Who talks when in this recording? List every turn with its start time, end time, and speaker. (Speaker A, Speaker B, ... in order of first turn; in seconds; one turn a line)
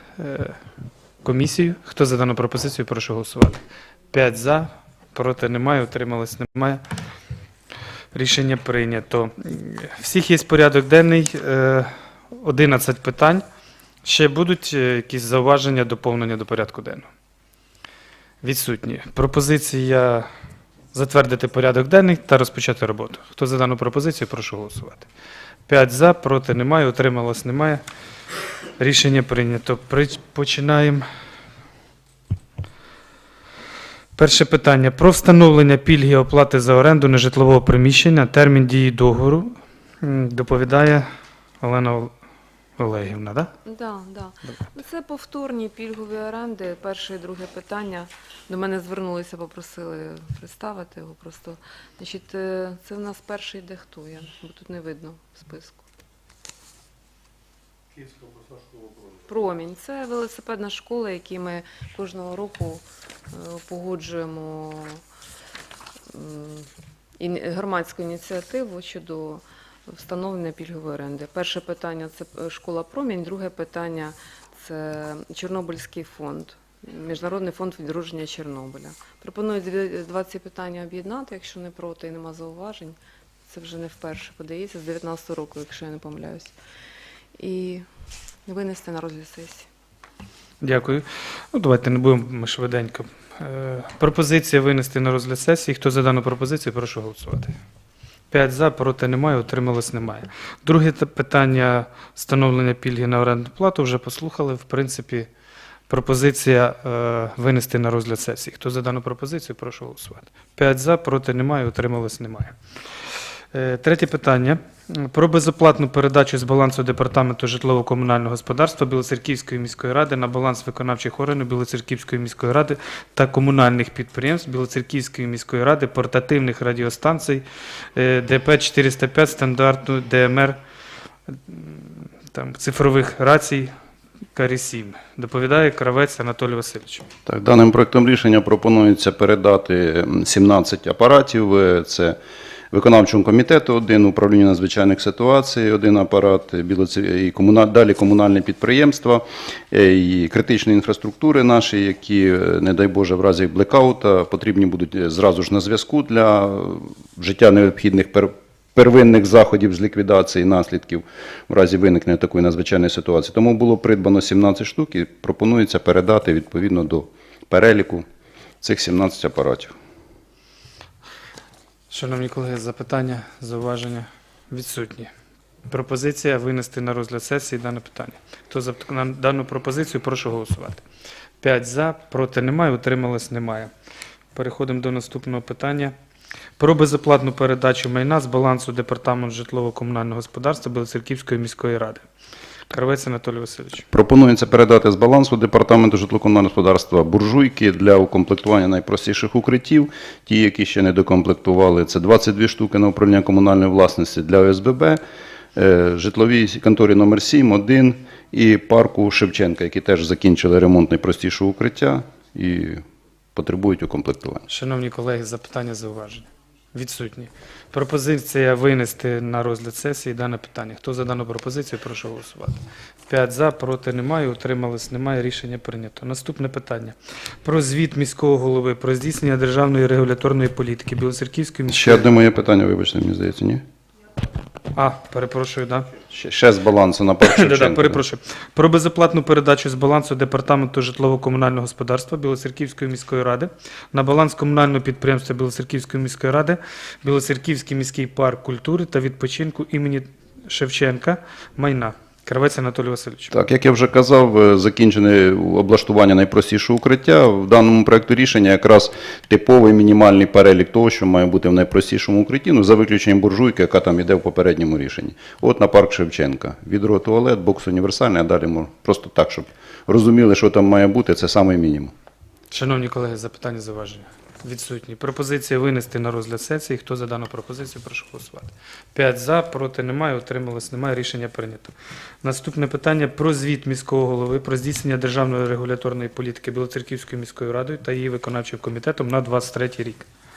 Speaker A: 0.2-0.6
Speaker A: 1.2-3.6
Speaker A: 4.1-6.8
Speaker A: 8.1-13.4
Speaker A: 14.0-17.1
Speaker A: 18.4-20.3
Speaker A: 20.9-25.1
Speaker A: 25.7-27.8
Speaker A: 28.8-31.1
Speaker A: 34.2-41.0
Speaker A: 41.6-42.1
Speaker A: 42.8-43.5
Speaker B: 43.6-55.8
Speaker B: 59.2-65.0
Speaker B: 66.1-86.5
Speaker B: 87.3-87.9
Speaker B: 88.4-89.7
Speaker A: 90.6-97.6
Speaker A: 98.3-105.3
Speaker A: 105.9-112.5
Speaker A: 113.5-130.6
Speaker A: 131.3-133.7
Speaker A: 134.3-137.1
Speaker C: 137.2-142.2
Speaker C: 142.7-168.0
Speaker C: 168.6-169.8
Speaker A: 171.9-175.1
Speaker A: 175.7-180.8
Speaker A: 181.4-183.7
Speaker A: 184.3-185.9
Speaker A: 186.6-192.0
Speaker A: 192.7-193.8
Speaker C: 193.9-205.0
Speaker C: 205.5-212.8
Speaker C: 213.3-214.4
Speaker A: 214.5-232.0
Speaker C: 231.7-233.6
Speaker A: 234.8-235.9
Speaker C: 236.1-238.0
Speaker A: 237.2-253.3
Speaker C: 253.3-271.9
Speaker A: 272.5-290.1